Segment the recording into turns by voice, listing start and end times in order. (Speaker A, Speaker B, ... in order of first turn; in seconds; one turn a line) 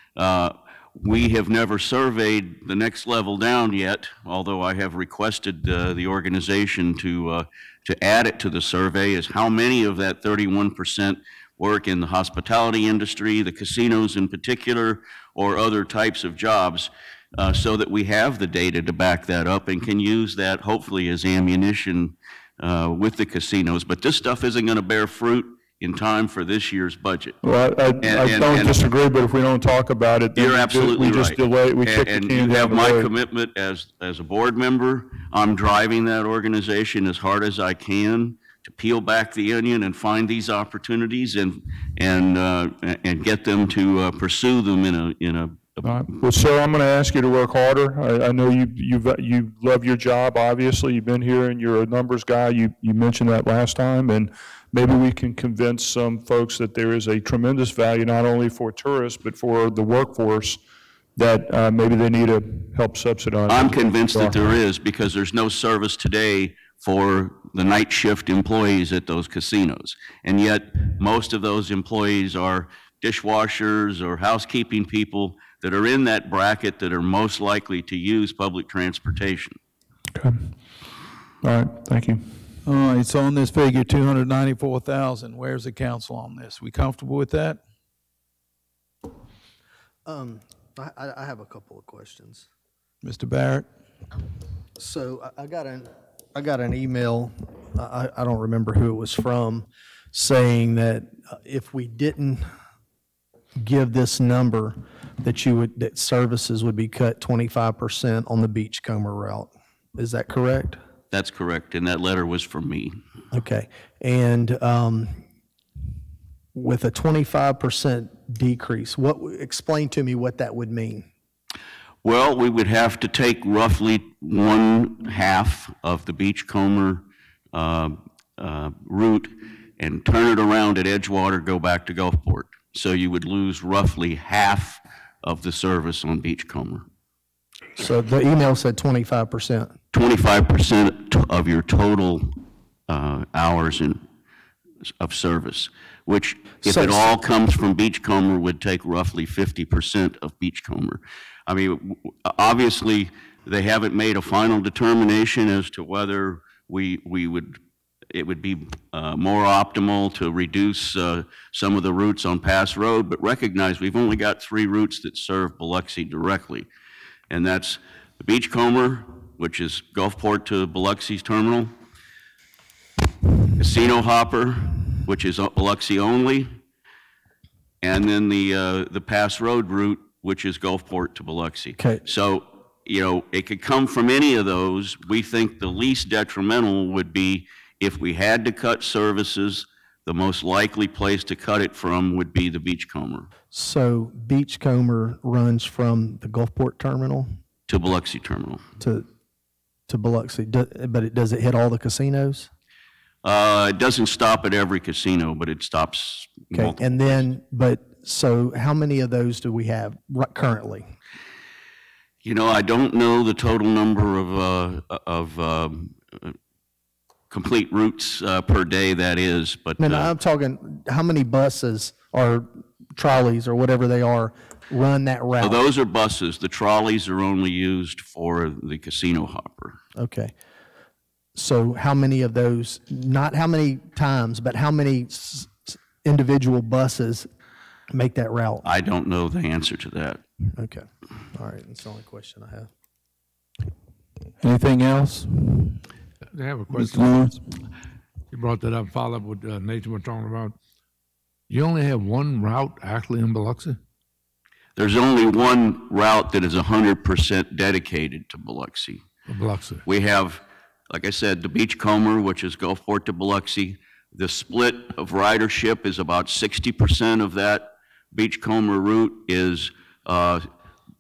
Speaker A: 0.2-27.4
Speaker B: 27.4-33.1
Speaker A: 28.0-28.8
Speaker A: 30.4-46.0
Speaker B: 45.8-60.6
Speaker B: 61.2-64.5
Speaker A: 63.5-79.6
Speaker B: 80.2-80.6
Speaker B: 81.4-82.3
Speaker C: 82.6-87.6
Speaker D: 90.1-92.5
Speaker C: 93.0-93.7
Speaker D: 94.8-102.5
Speaker D: 103.6-110.8
Speaker A: 111.1-113.0
Speaker D: 113.3-115.2
Speaker D: 116.5-121.1
Speaker A: 122.0-136.9
Speaker D: 137.8-139.8
Speaker A: 139.9-144.0
Speaker A: 145.0-157.6
Speaker D: 146.7-147.1
Speaker A: 158.1-166.7
Speaker A: 167.3-171.8
Speaker A: 173.6-176.6
Speaker A: 177.8-193.3
Speaker D: 193.5-197.3
Speaker A: 197.7-198.7
Speaker D: 198.8-199.1
Speaker D: 199.9-202.5
Speaker A: 203.2-207.3
Speaker D: 206.5-210.8
Speaker A: 212.2-216.4
Speaker A: 217.3-220.1
Speaker D: 219.8-225.6
Speaker A: 225.4-229.8
Speaker D: 230.0-230.3
Speaker D: 231.4-237.3
Speaker D: 237.9-238.6
Speaker A: 238.6-240.2
Speaker D: 240.6-242.7
Speaker C: 244.4-245.8
Speaker E: 246.3-247.3
Speaker C: 246.7-247.4
Speaker E: 248.3-250.6
Speaker E: 251.5-253.8
Speaker A: 254.8-259.1
Speaker E: 259.3-259.8
Speaker A: 259.9-270.5